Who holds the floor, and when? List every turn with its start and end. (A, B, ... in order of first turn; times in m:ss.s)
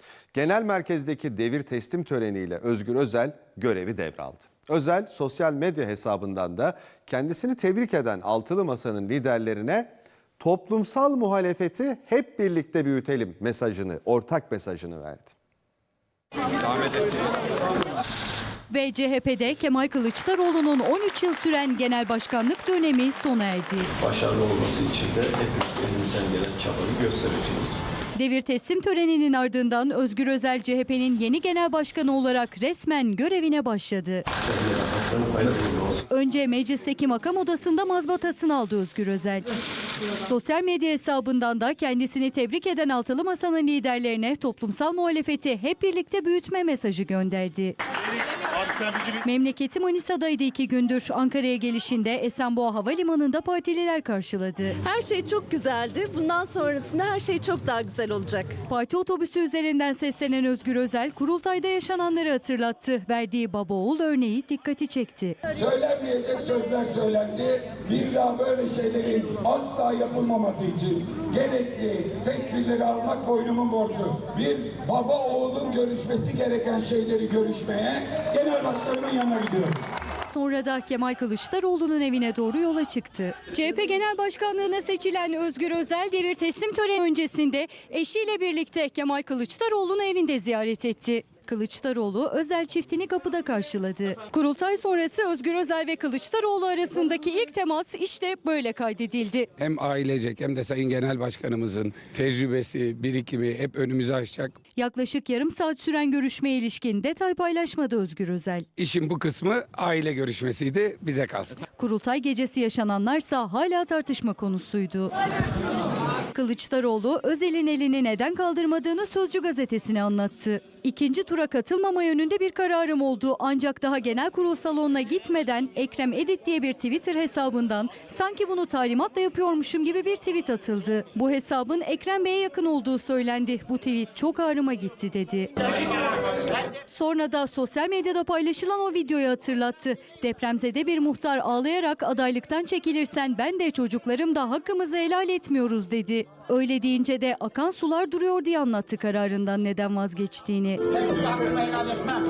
0:00.3-0:15.3 A
0:18.7-0:23.9 B
0:24.0-0:27.8 C
0:28.2-0:34.3 B
0:34.5-0:36.0 C
0:36.1-0:39.5 B
0:40.2-0:47.8 B
0:49.2-0:54.8 B
0:54.8-0:58.5 D
0:58.7-1:05.4 B
1:05.5-1:19.7 E
1:20.3-1:39.5 B
1:39.6-1:44.6 F
1:44.7-1:48.7 B
1:48.8-1:51.6 F
1:51.8-1:55.1 B
1:56.3-2:15.5 B
2:16.9-2:30.8 B